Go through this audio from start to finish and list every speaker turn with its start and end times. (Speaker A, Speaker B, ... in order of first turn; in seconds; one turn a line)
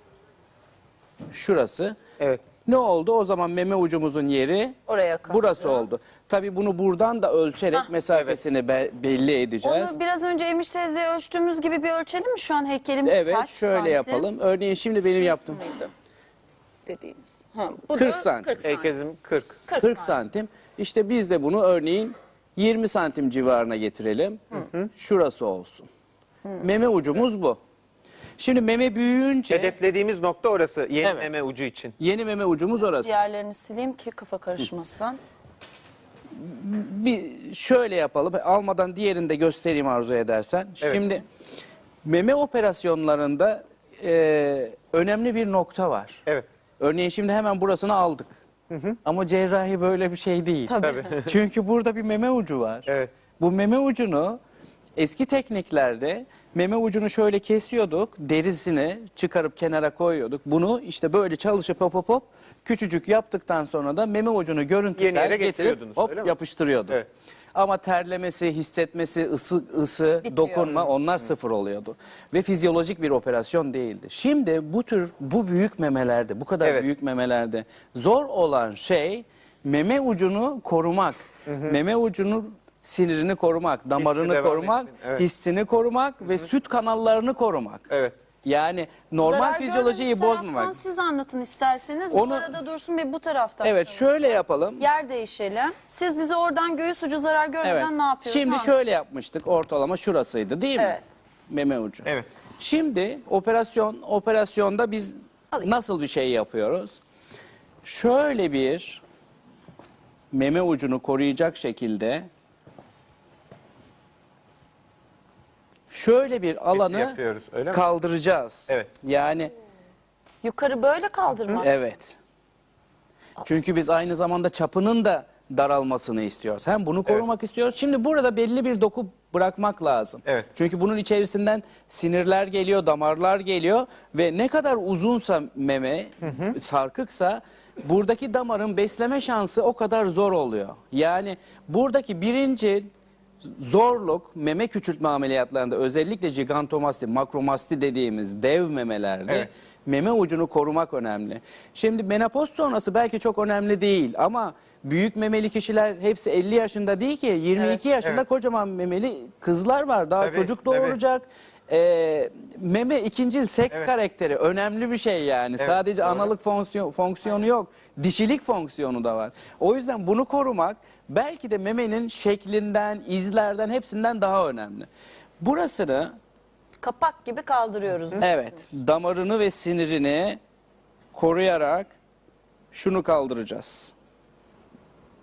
Speaker A: 1.3-2.0
Speaker B: 2.2-2.4
Speaker A: 2.6-4.8
Speaker C: 4.9-5.8
Speaker A: 5.3-10.0
Speaker B: 8.1-8.4
Speaker C: 9.6-14.3
Speaker A: 13.0-15.6
Speaker C: 15.0-15.9
Speaker C: 16.9-18.9
Speaker A: 17.9-18.6
Speaker B: 18.6-19.6
Speaker C: 19.7-20.1
Speaker A: 19.8-24.4
Speaker B: 24.5-24.9
Speaker A: 24.9-25.9
Speaker A: 26.6-27.6
Speaker A: 28.4-29.8
Speaker B: 29.5-32.0
Speaker A: 31.0-31.3
Speaker A: 32.0-33.1
Speaker C: 33.0-35.2
Speaker A: 36.3-41.2
Speaker A: 42.0-46.2
Speaker A: 46.8-48.4
Speaker B: 48.7-49.0
Speaker A: 49.0-54.4
Speaker C: 50.7-51.1
Speaker B: 50.8-51.3
Speaker B: 52.9-53.1
Speaker A: 55.0-87.9
Speaker B: 65.0-66.3
Speaker C: 70.2-70.7
Speaker B: 76.6-76.9
Speaker B: 81.5-81.8
Speaker B: 84.0-85.2
Speaker B: 87.9-88.2
Speaker A: 88.4-90.8
Speaker C: 89.2-98.8
Speaker A: 92.1-92.5
Speaker A: 93.6-94.9
Speaker A: 97.6-101.0
Speaker C: 100.8-101.0
Speaker A: 101.5-102.1
Speaker A: 102.6-107.0
Speaker A: 107.8-109.0
Speaker A: 110.3-112.3
Speaker A: 115.9-117.2
Speaker B: 116.7-117.9
Speaker A: 117.7-119.5
Speaker C: 120.4-121.7
Speaker A: 121.6-122.2
Speaker A: 123.4-142.9
Speaker B: 136.2-136.6
Speaker A: 143.4-174.9
Speaker B: 160.2-161.0
Speaker B: 165.6-166.3
Speaker A: 175.4-176.2
Speaker C: 176.8-178.4
Speaker A: 178.2-180.4
Speaker A: 181.1-181.9
Speaker A: 182.7-183.9